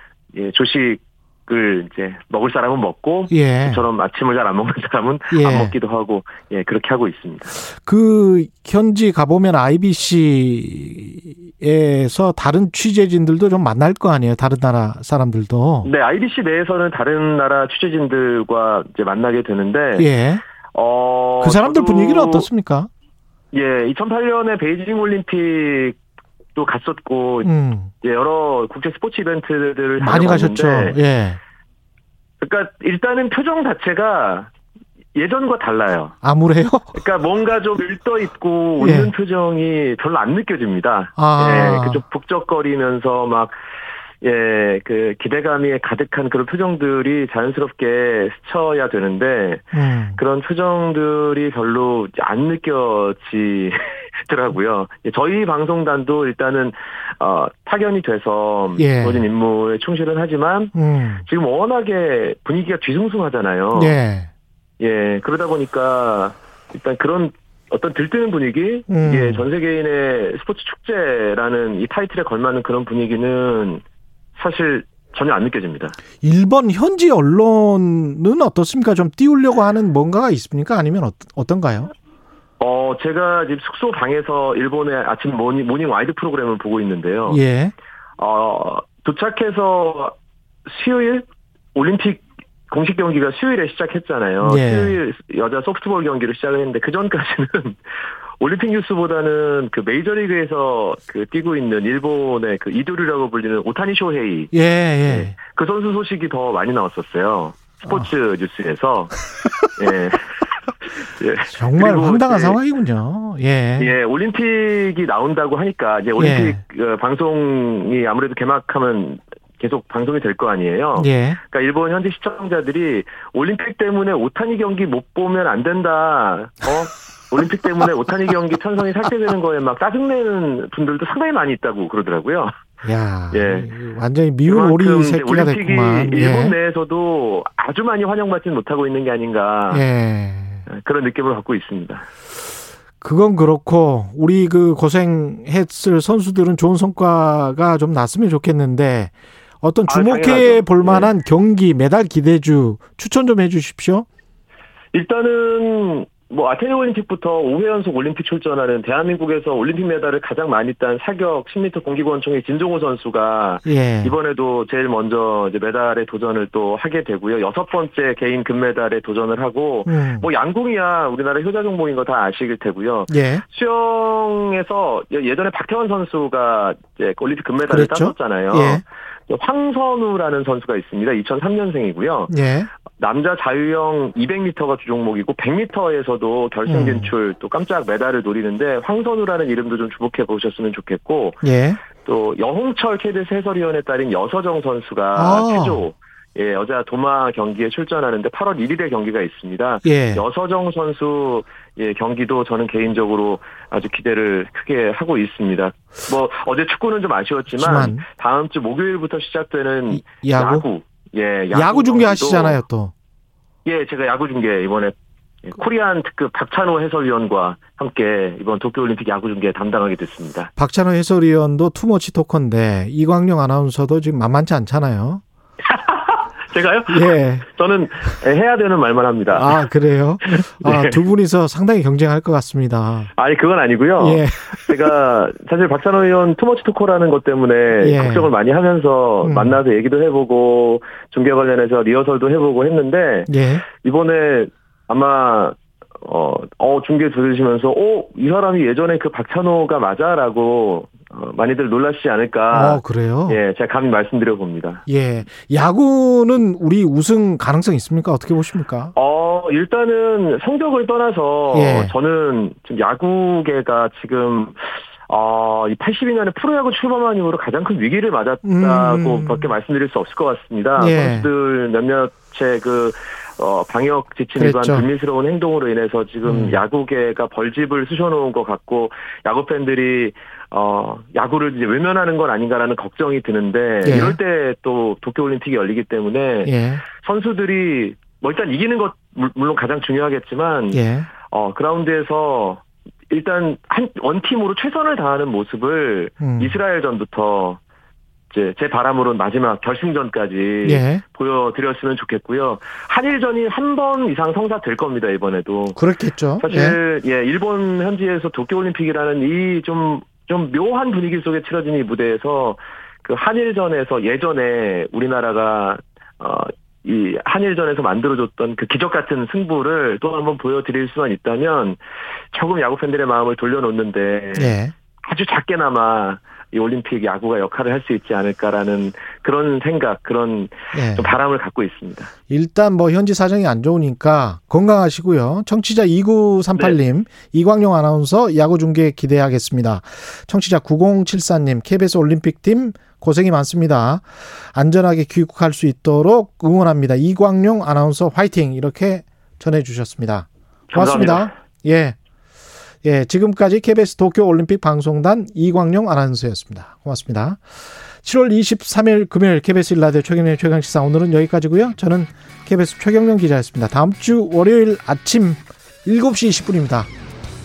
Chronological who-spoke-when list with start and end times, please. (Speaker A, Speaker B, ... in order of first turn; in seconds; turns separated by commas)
Speaker A: 0.3-7.5, Speaker B: 3.3-3.8, Speaker B: 5.3-5.8, Speaker B: 7.7-15.9, Speaker A: 15.8-20.1, Speaker B: 20.0-20.4, Speaker A: 20.7-22.5, Speaker B: 21.4-22.9, Speaker A: 23.5-26.0, Speaker A: 26.6-31.0, Speaker B: 27.4-27.9, Speaker B: 30.0-31.4, Speaker A: 32.4-34.5, Speaker A: 35.1-36.1, Speaker B: 36.2-37.0, Speaker A: 36.9-43.5, Speaker B: 38.8-39.1, Speaker B: 41.2-42.0, Speaker A: 44.2-60.7, Speaker B: 49.7-50.2, Speaker B: 58.8-59.2, Speaker B: 60.8-61.2, Speaker A: 61.2-64.0, Speaker B: 63.7-64.3, Speaker A: 64.8-73.8, Speaker B: 68.9-69.5, Speaker A: 74.4-76.0, Speaker B: 76.2-81.9, Speaker A: 82.6-87.4, Speaker B: 87.3-87.7, Speaker A: 88.2-90.1, Speaker A: 90.7-97.8, Speaker B: 94.4-95.0, Speaker A: 98.4-104.5, Speaker B: 104.5-105.3, Speaker A: 105.1-109.2, Speaker A: 109.8-110.4, Speaker A: 110.9-112.6, Speaker B: 111.5-113.9, Speaker A: 113.8-132.5, Speaker B: 116.2-116.6, Speaker B: 121.0-121.4, Speaker B: 132.8-136.6, Speaker A: 133.3-133.7, Speaker A: 134.5-139.8, Speaker B: 139.7-140.7, Speaker A: 140.7-142.1, Speaker B: 143.0-154.1, Speaker A: 149.9-151.1, Speaker A: 154.9-182.3, Speaker B: 163.7-164.1, Speaker B: 169.9-170.3, Speaker B: 173.1-173.4, Speaker B: 177.7-178.8, Speaker B: 182.3-182.7, Speaker A: 183.0-191.5, Speaker B: 186.7-187.1, Speaker B: 191.4-191.8, Speaker A: 192.0-212.6, Speaker B: 195.2-195.8, Speaker B: 199.8-200.2, Speaker B: 207.6-208.1, Speaker B: 209.9-210.7, Speaker B: 211.5-212.9, Speaker A: 213.7-220.5, Speaker B: 220.6-225.2, Speaker A: 225.7-229.6, Speaker B: 226.9-227.5, Speaker B: 229.3-233.1, Speaker A: 230.3-231.0, Speaker A: 233.2-254.8, Speaker B: 234.0-234.8, Speaker B: 237.8-238.3, Speaker B: 239.2-239.6, Speaker B: 243.3-243.6, Speaker B: 252.5-253.4, Speaker B: 254.9-258.9, Speaker A: 258.9-297.6, Speaker B: 261.5-261.9, Speaker B: 268.4-269.5, Speaker B: 270.8-271.3, Speaker B: 274.4-274.9, Speaker B: 276.2-276.6, Speaker B: 283.8-284.2, Speaker B: 286.4-286.8, Speaker B: 290.7-291.1, Speaker B: 296.2-296.6, Speaker A: 298.3-305.8, Speaker B: 300.6-301.0, Speaker B: 305.8-306.8, Speaker A: 306.4-321.8, Speaker A: 322.3-332.1, Speaker B: 324.3-324.7, Speaker B: 330.7-331.1, Speaker B: 332.3-352.0, Speaker A: 350.7-351.3, Speaker B: 352.8-357.4, Speaker B: 358.0-366.9